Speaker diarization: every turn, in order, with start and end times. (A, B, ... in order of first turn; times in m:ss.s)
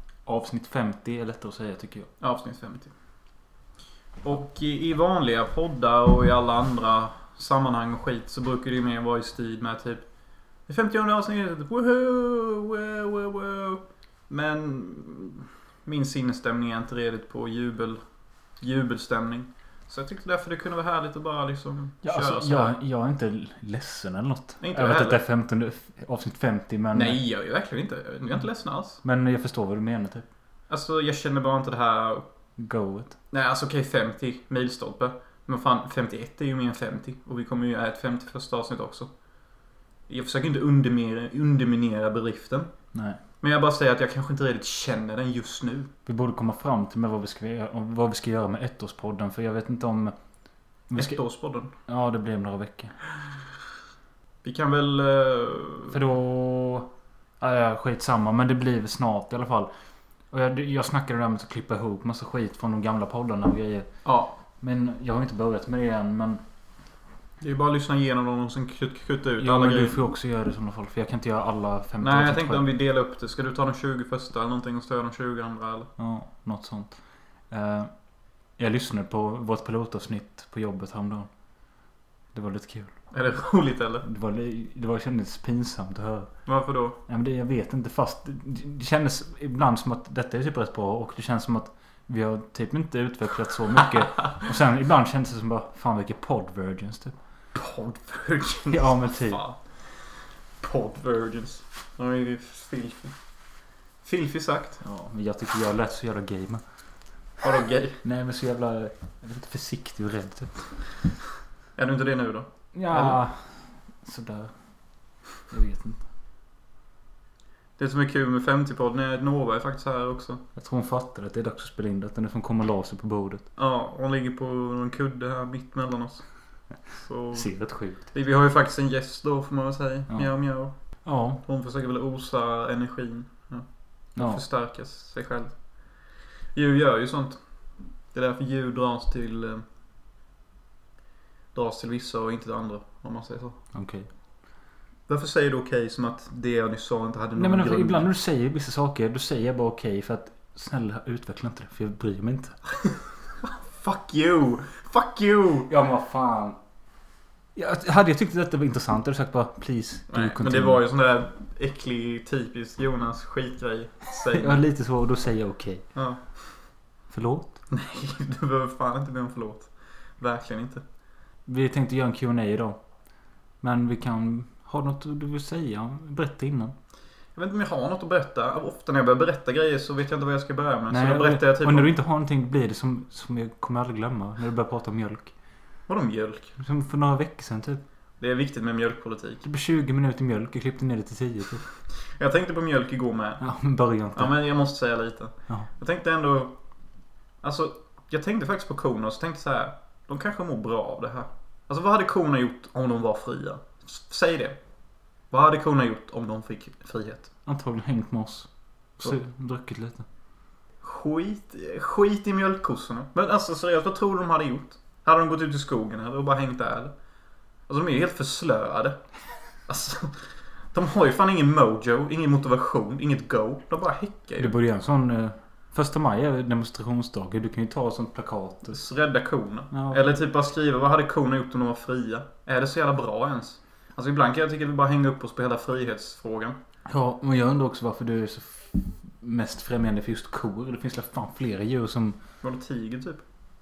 0:00.3-0:02.1 A
0:02.2-0:02.9 B
0:04.2-0:10.0 B
0:10.7-0:18.0 B
0:18.6-0:22.8 B
0:22.0-0:27.2 A
0:24.6-0:25.2 B
0:26.9-0:29.0 B
0:29.0-0:30.2 A
0:30.7-0:32.3 B
0:32.6-0:33.2 A
0:33.3-0:39.1 B
0:40.1-0:42.7 B
0:42.9-0:43.2 A
0:43.4-0:45.9 B
0:46.1-0:50.2 A
0:50.9-0:53.0 A
0:51.0-0:51.7 B
0:54.4-0:56.0 B
0:55.9-0:59.7 A
1:00.3-1:03.9 A
1:04.0-1:04.3 B
1:04.6-1:06.4 A
1:07.4-1:10.0 B
1:09.4-1:12.6 A
1:12.0-1:15.9 B
1:16.0-1:21.3 A
1:22.3-1:23.1 A
1:23.1-1:24.0 B
1:24.0-1:26.5 A
1:26.5-1:27.0 B
1:27.1-1:37.2 A
1:37.5-1:43.2 B
1:38.7-1:39.4 A
1:44.0-1:44.8 B
1:44.8-1:46.6 A
1:47.4-1:48.0 B
1:48.0-1:51.0 A
1:51.8-1:53.2 B
1:52.7-1:56.1 A
1:57.8-2:00.4 B
2:00.6-2:03.5 A
2:03.6-2:17.4 B
2:07.3-2:08.0 A
2:10.1-2:11.4 A
2:14.2-2:14.4 A
2:18.1-2:19.6 B
2:21.5-2:23.6 B
2:23.7-2:24.1 A
2:25.1-2:28.1 B
2:27.4-2:32.6 A
2:33.4-2:35.7 B
2:35.7-2:36.6 A
2:37.6-2:40.8 A
2:40.1-2:44.6 B
2:44.3-2:45.9 A
2:46.0-2:46.8 B
2:47.1-2:47.6 A
2:47.7-2:50.8 B
2:51.5-2:52.8 A
2:53.6-2:56.8 A
2:57.4-3:01.9 B
3:00.9-3:05.3 A
3:05.9-3:06.6 B
3:06.6-3:07.8 A
3:08.2-3:09.4 B
3:09.4-3:11.7 A
3:12.0-3:13.5 B
3:13.4-3:14.4 A
3:14.2-3:16.6 B
3:17.4-3:24.6 B
3:25.3-3:27.3 B
3:27.5-3:30.0 A
3:30.8-3:36.9 B
3:37.7-3:39.1 B
3:39.6-3:44.5 B
3:44.4-3:48.8 A
3:48.7-3:56.6 B
3:49.7-3:50.0 A
3:56.9-4:02.2 A
4:02.4-4:03.2 B